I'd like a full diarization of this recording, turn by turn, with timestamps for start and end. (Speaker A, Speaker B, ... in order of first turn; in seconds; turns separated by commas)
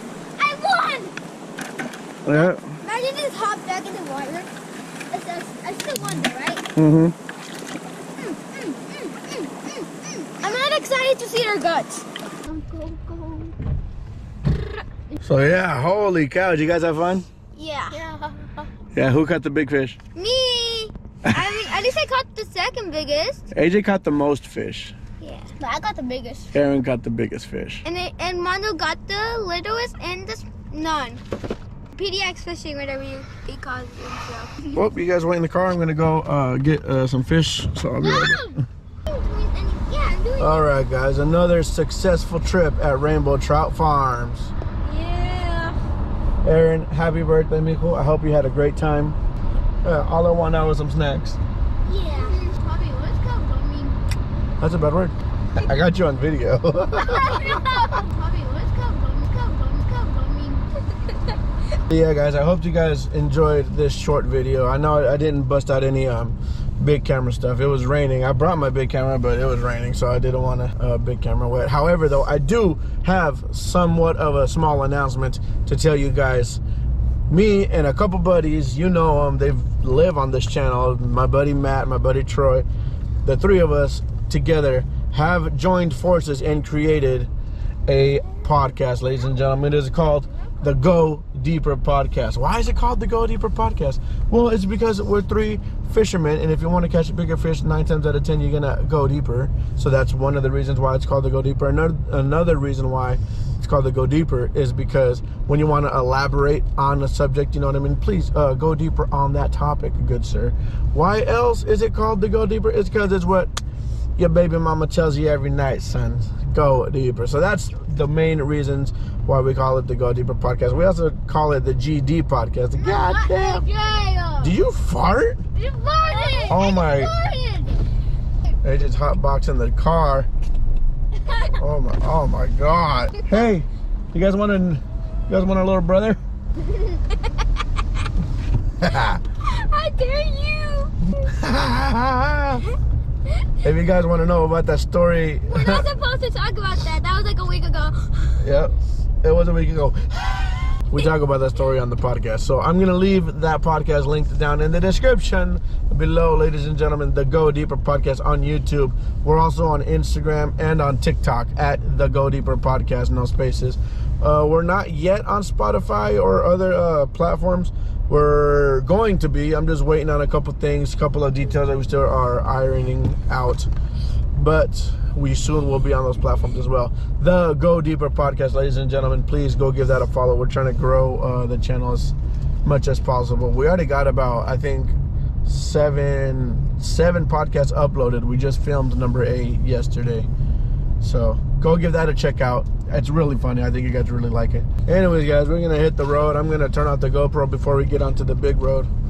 Speaker A: 0.4-1.1, Speaker B: 2.2-2.7, Speaker A: 2.3-4.5, Speaker A: 5.1-6.7, Speaker B: 6.8-7.1, Speaker A: 8.2-13.5, Speaker B: 15.2-17.3, Speaker A: 17.5-18.5, Speaker B: 18.9-20.0, Speaker A: 20.1-23.4, Speaker B: 23.5-24.9, Speaker A: 25.2-26.5, Speaker B: 26.5-27.8, Speaker A: 27.8-31.2, Speaker A: 31.9-34.8, Speaker B: 34.7-38.5, Speaker A: 38.0-40.7, Speaker B: 40.4-44.5, Speaker A: 44.8-45.8, Speaker B: 46.4-49.2, Speaker B: 49.8-51.4, Speaker A: 51.8-54.0, Speaker B: 54.6-57.7, Speaker A: 57.0-60.7, Speaker B: 61.9-76.6, Speaker B: 77.3-82.7, Speaker B: 83.2-87.3, Speaker B: 87.9-113.5, Speaker B: 114.2-123.7, Speaker A: 122.8-124.5, Speaker B: 124.4-125.4, Speaker A: 125.5-127.9, Speaker B: 126.5-127.1, Speaker B: 128.6-130.3, Speaker A: 131.2-131.6, Speaker B: 131.6-136.2, Speaker B: 138.8-139.2, Speaker A: 139.4-141.3, Speaker B: 141.3-142.6, Speaker B: 143.6-145.8, Speaker A: 145.5-148.4, Speaker B: 148.4-173.7, Speaker B: 174.3-190.3, Speaker B: 191.0-198.9